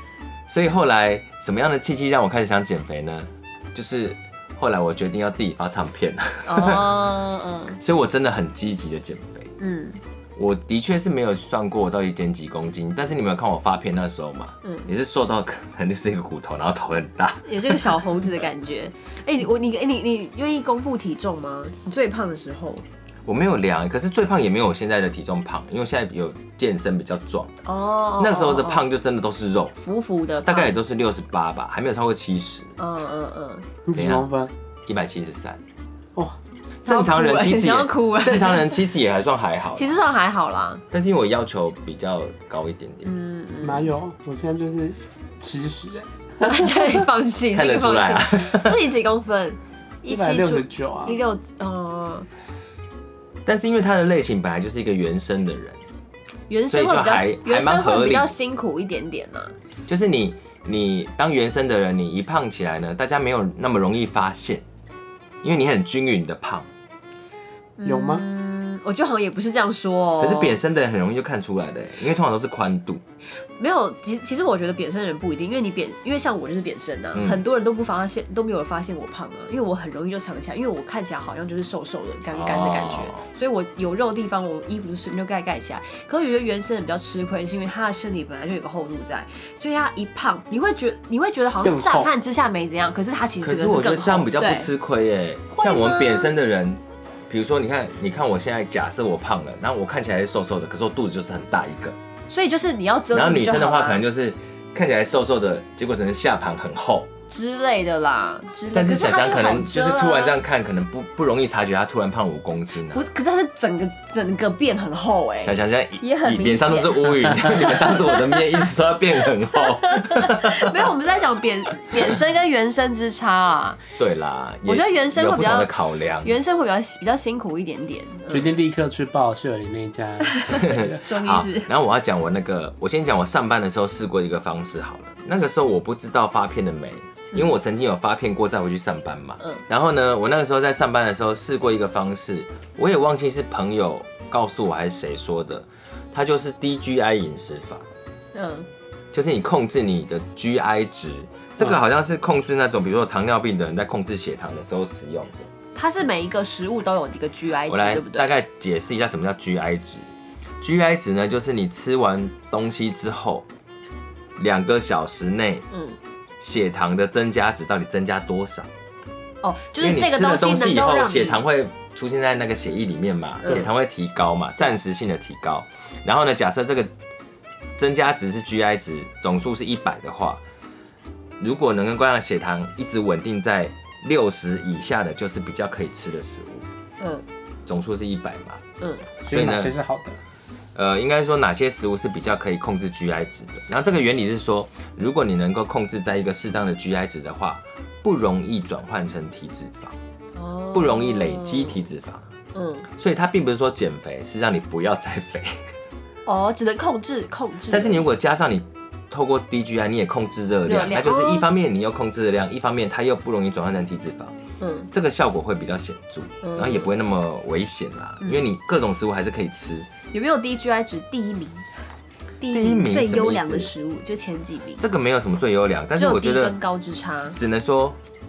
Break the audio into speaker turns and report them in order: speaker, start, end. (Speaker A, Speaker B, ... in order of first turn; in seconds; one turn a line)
Speaker A: 0.5-7.1
Speaker B: 6.5-7.8
Speaker A: 7.8-9.5
Speaker B: 9.6-10.0
Speaker A: 10.4-18.0
Speaker B: 14.6-14.9
Speaker B: 17.4-22.8
Speaker A: 23.2-27.6
Speaker B: 27.6-28.8
Speaker A: 28.2-29.7
Speaker B: 29.8-30.7
Speaker A: 30.4-32.7
Speaker B: 32.8-33.7
Speaker C: 33.9-34.5
Speaker A: 33.9-34.3
Speaker A: 34.9-35.6
Speaker A: 36.8-40.0
Speaker B: 36.9-38.8
Speaker B: 39.7-40.8
Speaker A: 40.9-43.1
Speaker B: 43.0-43.9
Speaker C: 43.6-46.8
Speaker B: 46.4-52.3
Speaker A: 47.5-48.8
Speaker C: 50.0-51.2
Speaker A: 53.4-55.8
Speaker B: 56.5-59.5
Speaker A: 56.7-58.3
Speaker A: 59.9-64.6
Speaker A: 65.4-66.7
Speaker B: 67.8-70.5
Speaker C: 67.8-68.2
Speaker A: 70.2-73.0
Speaker B: 73.6-94.7
Speaker A: 77.1-77.4
Speaker A: 82.3-83.2
Speaker C: 91.6-92.1
Speaker A: 93.4-102.0
Speaker B: 95.5-96.3
Speaker B: 102.3-104.0
Speaker A: 103.1-107.1
Speaker B: 107.3-110.4
Speaker A: 108.7-113.1
Speaker B: 112.9-118.6
Speaker A: 115.4-120.9
Speaker B: 119.5-123.8
Speaker A: 124.0-126.4
Speaker B: 124.7-125.7
Speaker B: 126.2-128.5
Speaker C: 128.3-131.0
Speaker B: 130.2-131.7
Speaker A: 130.5-147.8
Speaker B: 148.3-148.7
Speaker A: 149.1-155.5
Speaker B: 155.7-158.3
Speaker A: 157.7-160.0
Speaker A: 160.6-163.4
Speaker A: 164.4-165.7
Speaker B: 165.7-166.0
Speaker A: 166.4-168.7
Speaker B: 169.4-171.4
Speaker A: 169.8-176.9
Speaker B: 173.4-173.7
Speaker A: 177.8-180.4
Speaker A: 181.4-186.7
Speaker A: 187.7-188.6
Speaker B: 188.8-189.1
Speaker A: 189.2-189.7
Speaker C: 189.3-190.2
Speaker A: 190.7-199.9
Speaker B: 200.3-201.8
Speaker A: 200.7-202.3
Speaker B: 202.5-202.8
Speaker A: 203.0-205.6
Speaker B: 206.2-208.1
Speaker A: 207.7-214.3
Speaker B: 210.7-211.5
Speaker B: 214.6-214.9
Speaker A: 214.9-219.9
Speaker B: 216.4-216.9
Speaker B: 220.1-221.7
Speaker B: 222.4-224.8
Speaker A: 222.5-223.7
Speaker A: 224.8-226.6
Speaker B: 225.9-227.4
Speaker A: 227.3-228.0